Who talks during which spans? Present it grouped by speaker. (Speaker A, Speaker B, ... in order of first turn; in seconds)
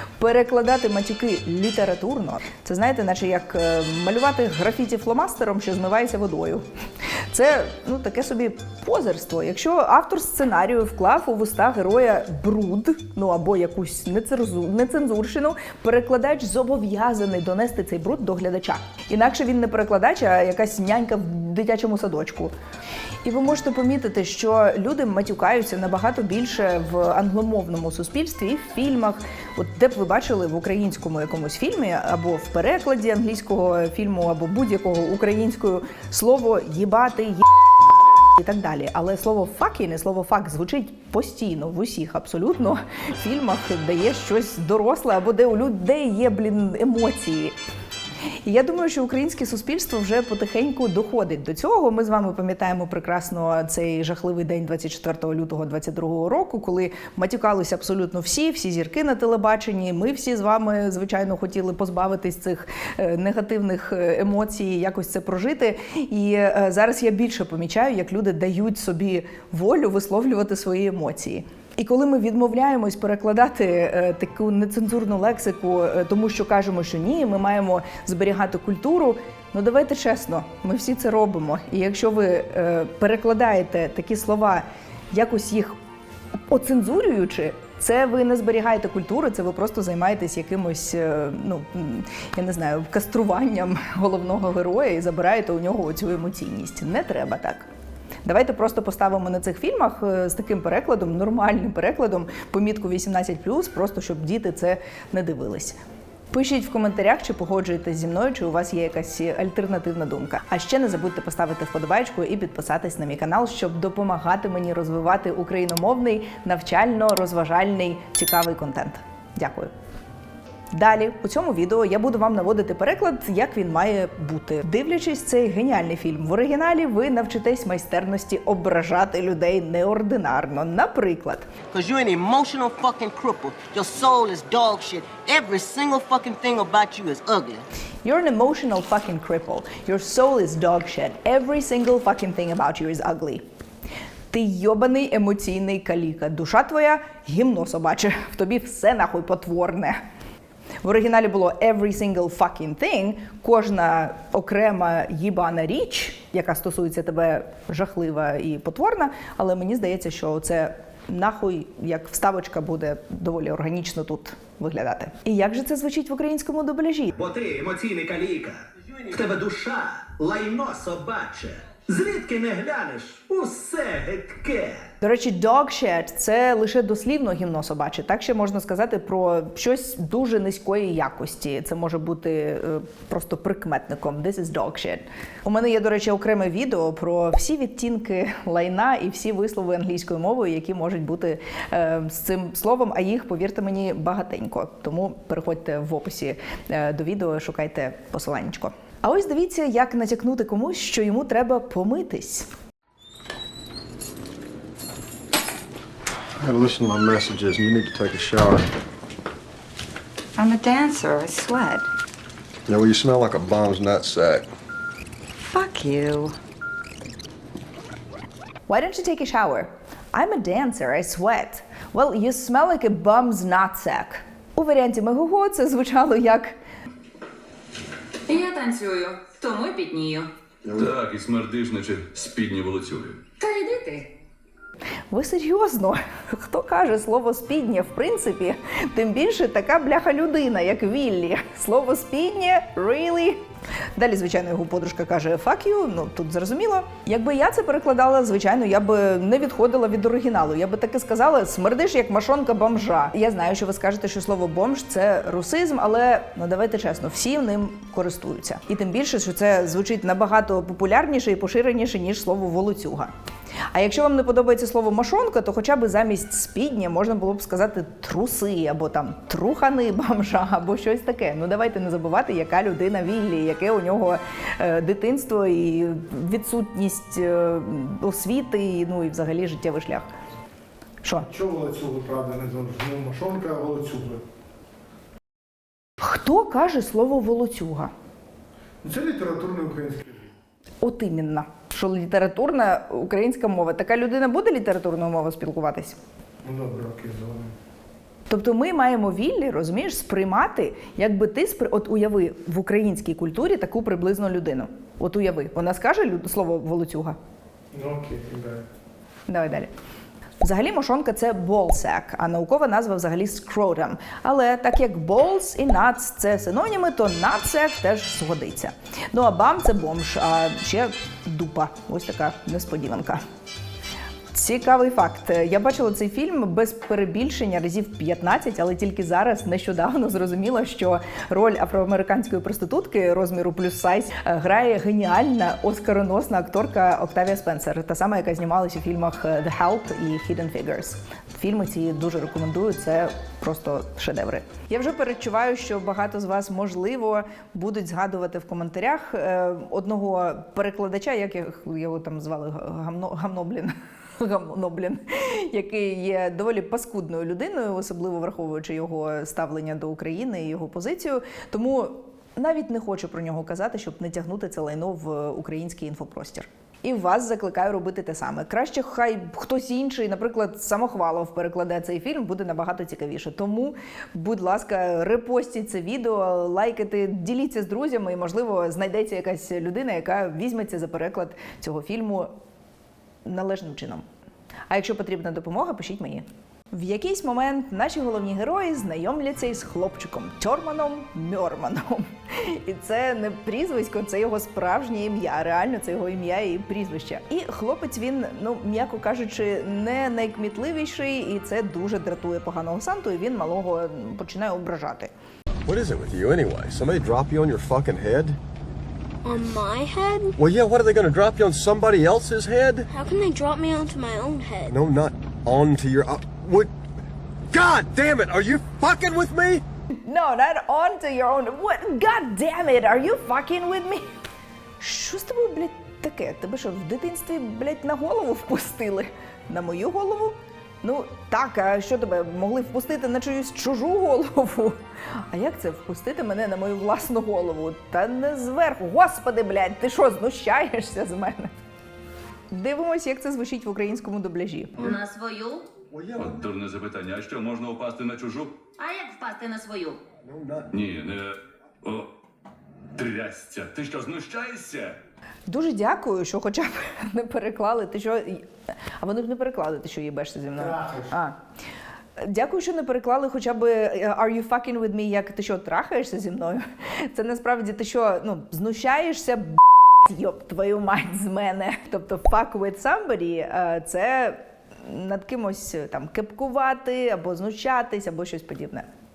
Speaker A: 0.2-6.6, 7.3-22.5, 23.2-37.5, 38.4-47.5, 48.4-85.8, 86.5-97.7, 98.2-105.8, 106.3-119.7, 120.7-131.5, 138.0-143.4, 144.3-150.0, 150.8-167.1, 175.0-202.5, 218.7-226.5, 235.1-243.4, 243.9-263.1, 263.7-280.1, 286.0-287.9, 290.8-296.0, 298.3-307.2, 309.3-309.7, 310.4-323.2, 324.3-382.3, 383.2-384.0, 384.7-405.1, 420.1-424.1, 424.8-434.8, 435.3-441.5, 442.5-444.9, 455.5-458.5, 459.0-461.4, 462.2-478.9
Speaker B: 131.7-137.6
Speaker C: 167.1-174.9
Speaker D: 206.4-208.7, 212.7-214.5, 405.6-408.4, 410.4-412.9, 414.7-416.7, 417.5-419.6, 445.9-446.4, 450.2-450.7
Speaker E: 210.4-211.9, 215.4-216.3
Speaker F: 228.3-230.3, 233.4-234.1, 444.8-445.6, 448.8-450.0
Speaker G: 230.7-233.2, 446.2-448.6, 450.7-452.1, 452.9-455.0
Speaker H: 281.2-284.2, 288.8-290.3, 296.4-297.5, 307.7-308.6, 460.5-461.1
Speaker I: 409.2-410.4, 412.9-414.8